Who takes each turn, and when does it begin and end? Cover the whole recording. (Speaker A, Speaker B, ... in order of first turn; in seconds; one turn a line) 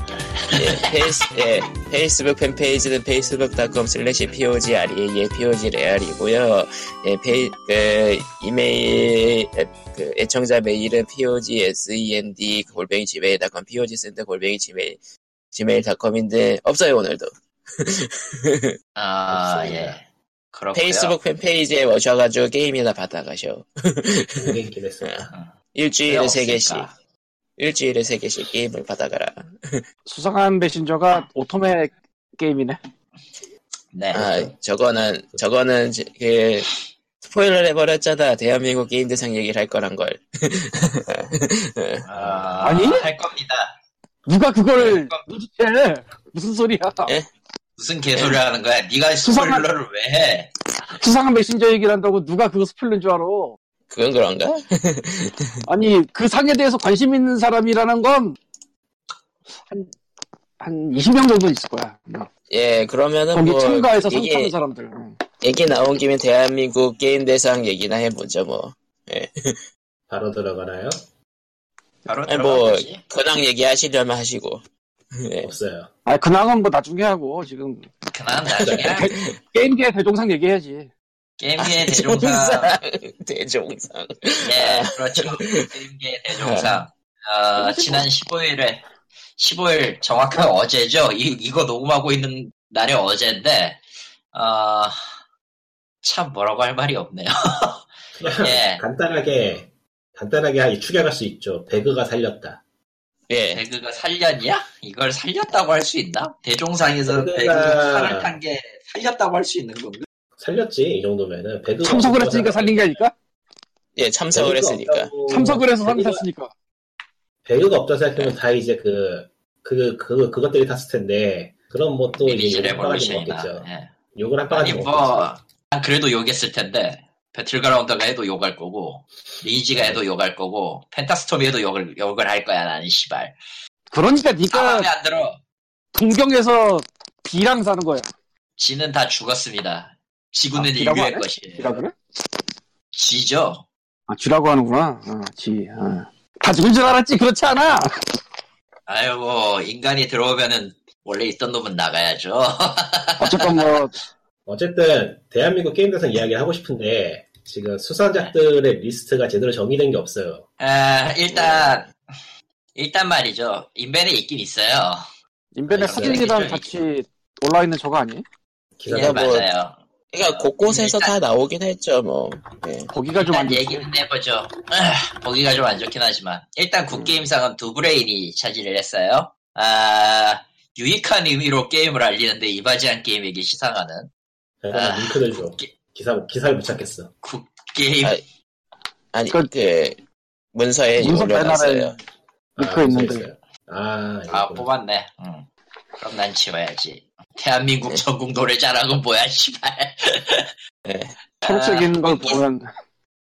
Speaker A: 0.4-0.9
Speaker B: 0.5-15.0
Speaker B: 15.5-18.7
Speaker A: 18.9-21.1
Speaker C: 19.3-20.0
Speaker B: 20.7-26.9
Speaker C: 24.4-25.3
Speaker A: 26.1-26.9
Speaker B: 27.6-29.8
Speaker D: 30.1-32.8
Speaker A: 33.9-34.2
Speaker B: 34.1-36.7
Speaker C: 34.1-34.5
Speaker B: 37.2-42.0
Speaker A: 42.0-43.7
Speaker C: 42.1-42.7
Speaker D: 42.6-43.0
Speaker D: 44.2-47.1
Speaker A: 44.8-45.2
Speaker A: 47.8-50.5
Speaker B: 48.1-48.4
Speaker D: 49.2-49.6
Speaker D: 51.0-53.5
Speaker B: 53.9-55.6
Speaker D: 55.6-58.4
Speaker D: 60.6-62.3
Speaker B: 62.5-64.5
Speaker D: 63.3-65.2
Speaker B: 65.4-69.6
Speaker C: 70.1-71.0
Speaker A: 72.0-73.0
Speaker B: 72.3-75.5
Speaker C: 75.4-75.9
Speaker D: 76.0-77.9
Speaker A: 78.1-79.2
Speaker B: 78.4-79.3
Speaker C: 78.6-78.9
Speaker D: 78.9-80.9
Speaker A: 81.4-82.8
Speaker B: 81.6-85.7
Speaker A: 84.4-88.8
Speaker B: 86.3-86.8
Speaker D: 87.6-88.1
Speaker A: 89.4-93.8
Speaker A: 94.3-95.0
Speaker A: 96.0-98.8
Speaker C: 98.2-102.6
Speaker B: 103.3-103.6
Speaker A: 103.5-110.0
Speaker C: 107.0-108.3
Speaker C: 110.4-112.9
Speaker D: 111.8-113.1
Speaker B: 114.0-115.1
Speaker C: 114.3-116.2
Speaker D: 115.3-116.5
Speaker C: 117.5-125.3
Speaker A: 122.2-123.9
Speaker A: 124.5-133.3
Speaker C: 129.7-130.0
Speaker D: 133.9-134.9
Speaker A: 134.5-135.4
Speaker D: 135.9-138.0
Speaker A: 138.6-141.8
Speaker D: 140.5-141.9
Speaker A: 142.9-143.6
Speaker D: 144.1-147.9
Speaker A: 148.9-153.6
Speaker D: 153.2-153.9
Speaker C: 154.5-160.4
Speaker A: 160.6-161.9
Speaker B: 161.3-161.8
Speaker A: 162.8-165.1
Speaker D: 165.5-168.2
Speaker C: 165.7-166.5
Speaker A: 165.7-166.8
Speaker C: 168.8-169.4
Speaker B: 168.9-169.5
Speaker A: 168.9-171.2
Speaker B: 170.1-172.9
Speaker D: 172.9-173.9
Speaker A: 173.2-184.1
Speaker C: 184.6-187.1
Speaker A: 184.7-185.7
Speaker A: 187.2-188.2
Speaker B: 189.1-190.0
Speaker B: 190.5-192.0
Speaker D: 191.0-191.9
Speaker D: 192.6-193.2
Speaker C: 192.6-194.7
Speaker A: 194.3-195.5
Speaker A: 196.0-200.5
Speaker B: 200.8-201.2
Speaker A: 201.4-202.4
Speaker D: 201.4-202.7